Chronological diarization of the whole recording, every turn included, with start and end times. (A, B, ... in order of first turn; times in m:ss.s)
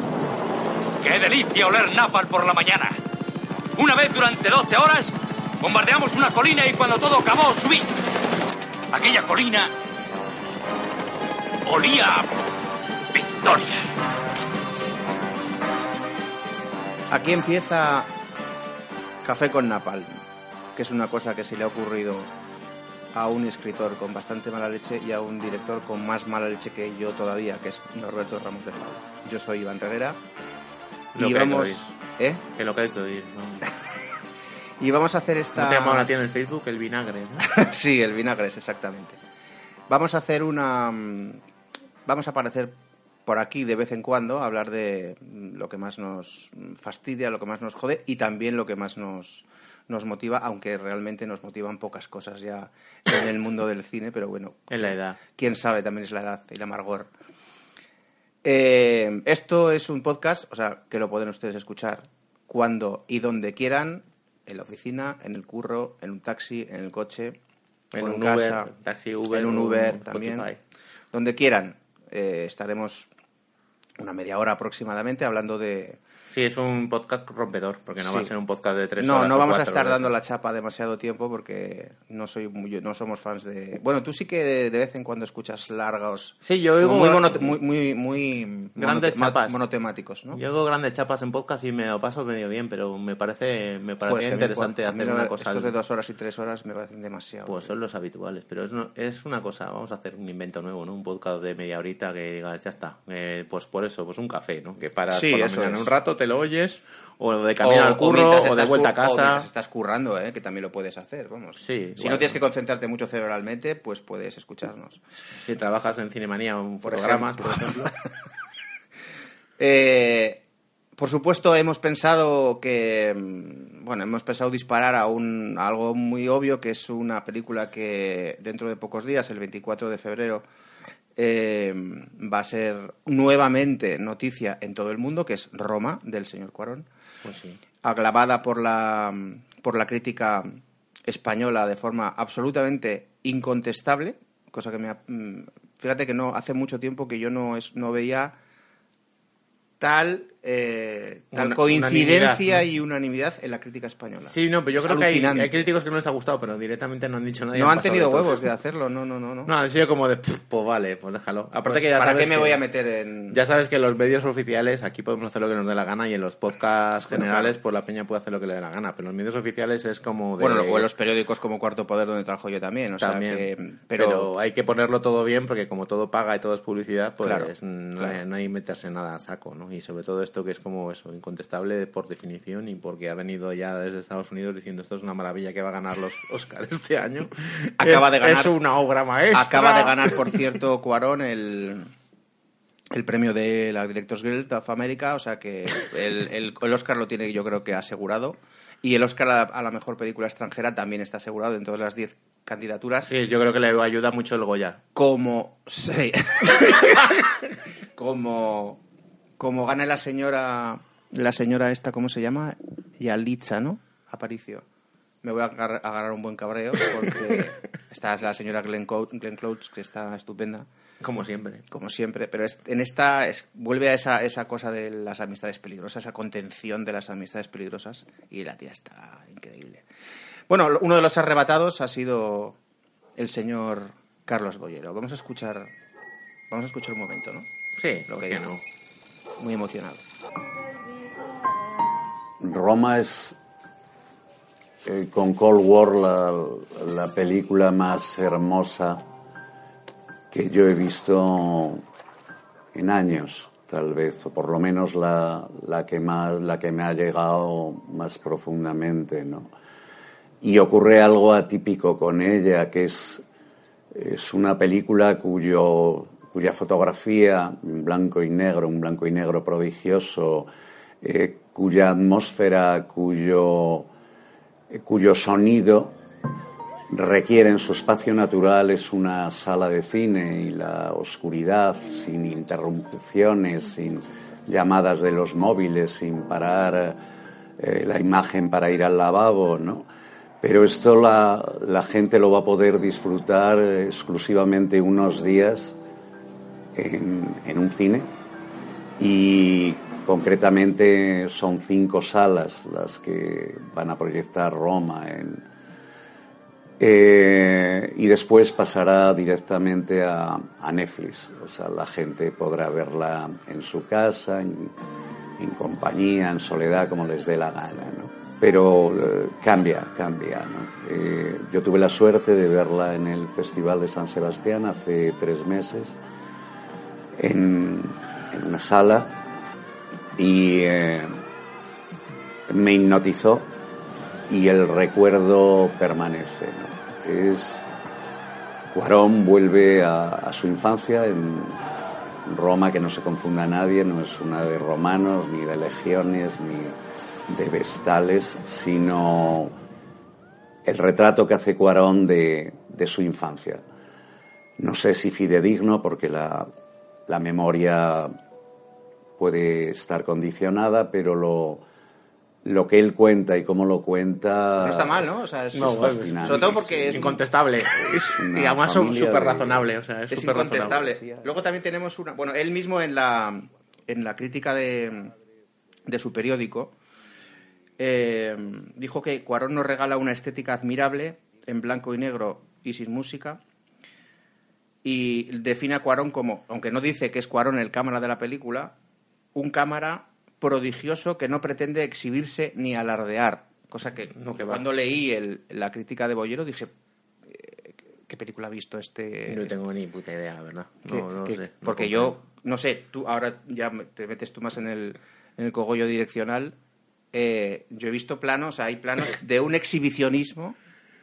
0:01.0-0:03.0 A
0:03.8-0:07.9 A
0:08.9-0:09.7 A
0:11.6-0:12.3 A
0:13.1-0:13.8 A
0:17.1-0:18.1 B
0:19.2-0:20.2 B
0:20.8-0:22.3 B
0:23.1-0:30.2 B
0:31.1-0:31.8 C
0:31.2-0:32.4 B
0:32.6-0:33.7 C
0:34.8-0:36.1 B
0:35.6-0:37.5 C
0:37.4-0:39.2 B
0:39.9-0:41.4 B
0:42.0-0:42.7 B
0:43.3-0:57.1 B
0:54.7-0:55.2 C
0:58.4-1:07.4 B
1:07.9-1:08.7 B
1:07.9-1:10.6 C
1:09.3-1:10.5 B
1:11.1-1:13.1 B
1:14.0-1:16.0 B
1:16.3-1:20.1 C
1:18.0-1:18.3 B
1:19.0-1:30.4 B
1:26.4-1:27.6 C
1:28.8-1:29.6 C
1:30.3-1:35.7 C
1:34.1-1:37.7 B
1:37.4-1:49.5 C
1:45.1-1:45.9 B
1:47.6-1:55.0 B
1:51.6-1:52.4 C
1:55.4-1:57.9 C
1:56.8-1:57.9 B
1:59.6-2:00.4 B
2:01.0-2:10.4 B
2:11.2-2:16.9 B
2:17.2-2:17.6 C
2:17.8-2:28.4 B
2:29.8-2:35.5 B
2:31.3-2:32.6 C
2:34.3-2:38.4 C
2:37.6-2:39.5 B
2:39.5-2:42.6 C
2:41.6-2:43.4 B
2:43.3-2:50.9 C
2:47.1-2:47.5 B
2:50.4-2:54.3 B
2:53.0-3:10.4 C
2:57.2-2:58.2 B
3:07.8-3:08.5 B
3:09.3-3:11.9 B
3:12.9-3:23.1 B
3:23.1-3:24.8 C
3:24.9-3:27.2 B
3:28.0-3:28.8 B
3:29.4-3:34.6 B
3:35.2-3:40.7 B
3:41.0-3:41.6 C
3:41.7-3:49.8 B
3:50.5-3:52.6 B
3:53.2-3:55.7 B
3:56.5-3:57.5 B
3:57.8-3:58.6 C
3:58.1-3:58.4 B
3:59.4-4:00.0 B
4:02.4-4:03.4 D
4:04.8-4:09.0 D
4:10.3-4:11.8 D
4:12.7-4:19.5 D
4:20.4-4:23.2 D
4:23.9-4:30.5 D
4:31.0-4:33.9 D
4:34.7-4:36.0 D
4:36.9-4:47.0 D
4:47.6-4:49.9 D
4:50.4-4:55.8 D
4:56.8-4:58.1 D
4:59.0-5:05.5 D
5:06.8-5:14.8 D
5:15.4-5:26.0 D
5:27.2-5:29.2 D
5:30.2-5:31.1 D
5:32.5-5:33.5 D
5:34.3-5:37.7 D
5:38.7-5:41.6 D
5:42.2-5:46.8 D
5:47.3-5:49.6 D
5:50.6-5:53.6 D
5:54.6-5:56.5 D
5:57.1-5:58.2 D
5:59.2-6:01.6 D
6:02.4-6:07.2 D
6:04.6-6:07.2 B
6:05.5-6:11.0 C
6:07.7-6:09.7 D
6:10.1-6:15.1 B
6:15.9-6:16.8 B
6:17.8-6:23.4 B
6:24.8-6:28.7 B
6:29.4-6:36.7 B
6:34.1-6:34.6 C
6:37.3-6:39.5 B
6:39.3-6:42.2 C
6:40.9-6:46.6 B
6:47.1-6:50.6 B